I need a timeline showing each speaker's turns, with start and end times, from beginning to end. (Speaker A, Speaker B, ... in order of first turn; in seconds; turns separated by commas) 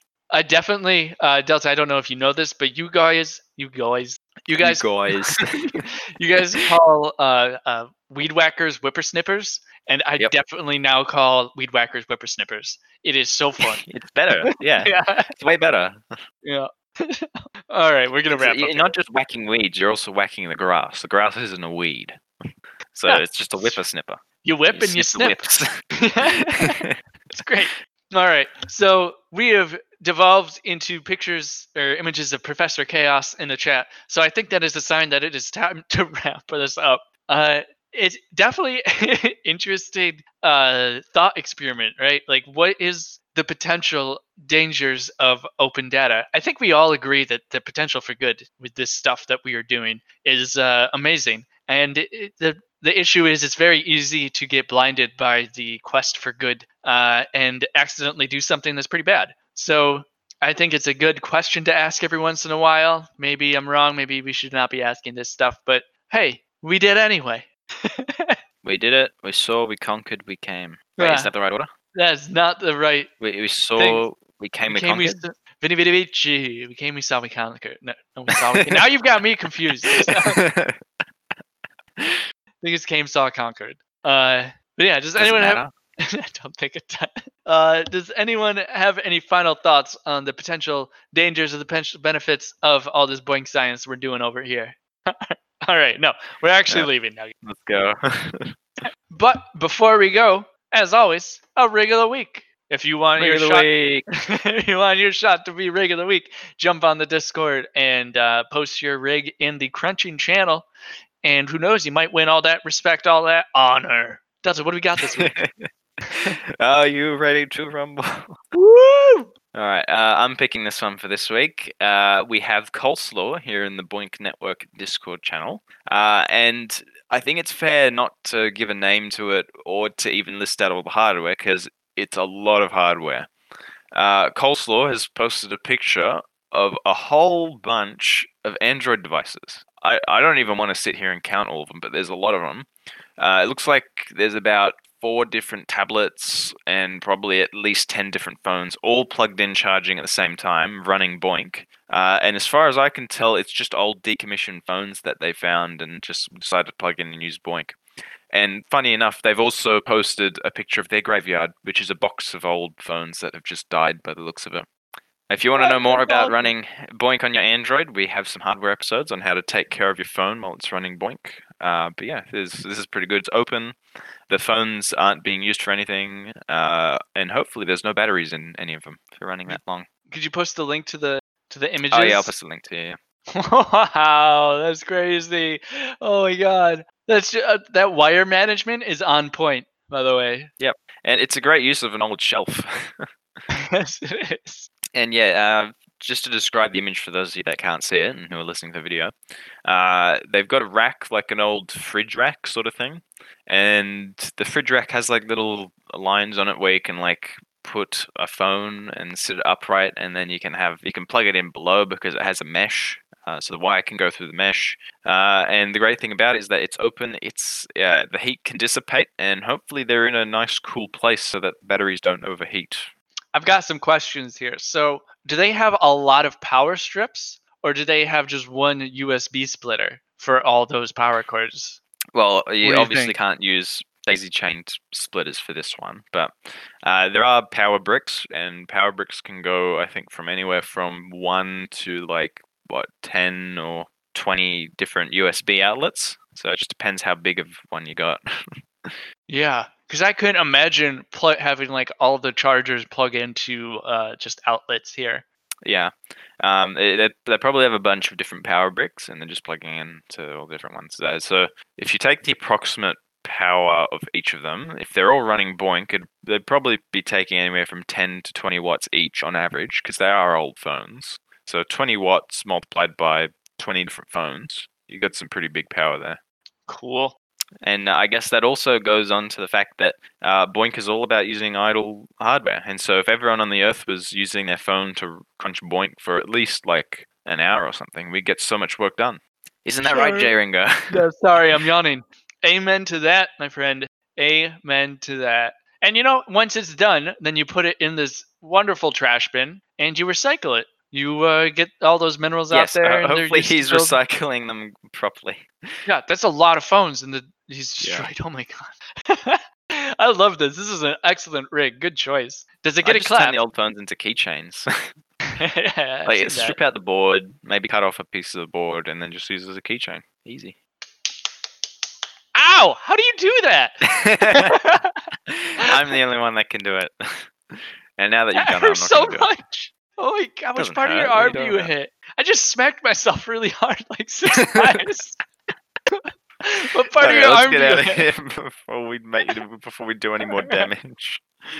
Speaker A: 0.3-13.8, Speaker B: 4.6-5.8, Speaker B: 13.6-16.0, Speaker A: 14.4-15.3, Speaker A: 16.4-18.9, Speaker B: 18.3-22.2, Speaker B: 22.9-24.2, Speaker A: 23.1-23.8, Speaker A: 24.4-25.4, Speaker B: 24.7-27.0, Speaker A: 26.0-68.4, Speaker B: 68.6-71.7, Speaker A: 71.0-71.3, Speaker A: 71.9-73.1, Speaker B: 73.2-75.2, Speaker A: 73.8-74.0, Speaker A: 74.7-80.4, Speaker B: 78.5-78.8, Speaker B: 79.8-80.8, Speaker B: 82.0-82.2, Speaker A: 82.6-97.3, Speaker B: 85.2-85.7, Speaker B: 97.4-98.5, Speaker A: 99.1-110.7, Speaker B: 103.2-104.0, Speaker A: 111.2-115.4, Speaker B: 115.2-115.7, Speaker A: 116.0-116.3, Speaker B: 116.5-118.4, Speaker A: 118.5-119.3, Speaker B: 119.5-133.3, Speaker B: 133.9-142.7, Speaker B: 143.2-157.8, Speaker B: 158.3-164.7, Speaker B: 165.3-173.8, Speaker A: 165.6-166.5, Speaker B: 174.3-179.9, Speaker A: 179.5-182.3, Speaker B: 181.9-183.0, Speaker A: 183.3-190.5, Speaker B: 190.6-193.1, Speaker A: 193.5-194.7, Speaker B: 194.9-199.1, Speaker B: 199.6-222.9, Speaker A: 223.3-231.8, Speaker B: 232.1-248.2, Speaker A: 232.6-233.1, Speaker A: 249.3-255.2, Speaker B: 255.6-276.2, Speaker A: 276.7-277.1, Speaker B: 277.6-291.0, Speaker A: 289.8-290.3, Speaker A: 290.9-304.0, Speaker B: 302.5-305.5, Speaker A: 305.8-313.4, Speaker B: 307.8-308.1, Speaker B: 312.8-314.7, Speaker A: 315.4-316.6, Speaker B: 316.1-320.6, Speaker A: 322.3-325.1, Speaker B: 323.8-324.6, Speaker B: 325.3-329.3, Speaker A: 328.3-335.2, Speaker B: 330.6-331.7, Speaker A: 335.9-338.0, Speaker B: 337.0-341.2, Speaker A: 340.4-340.7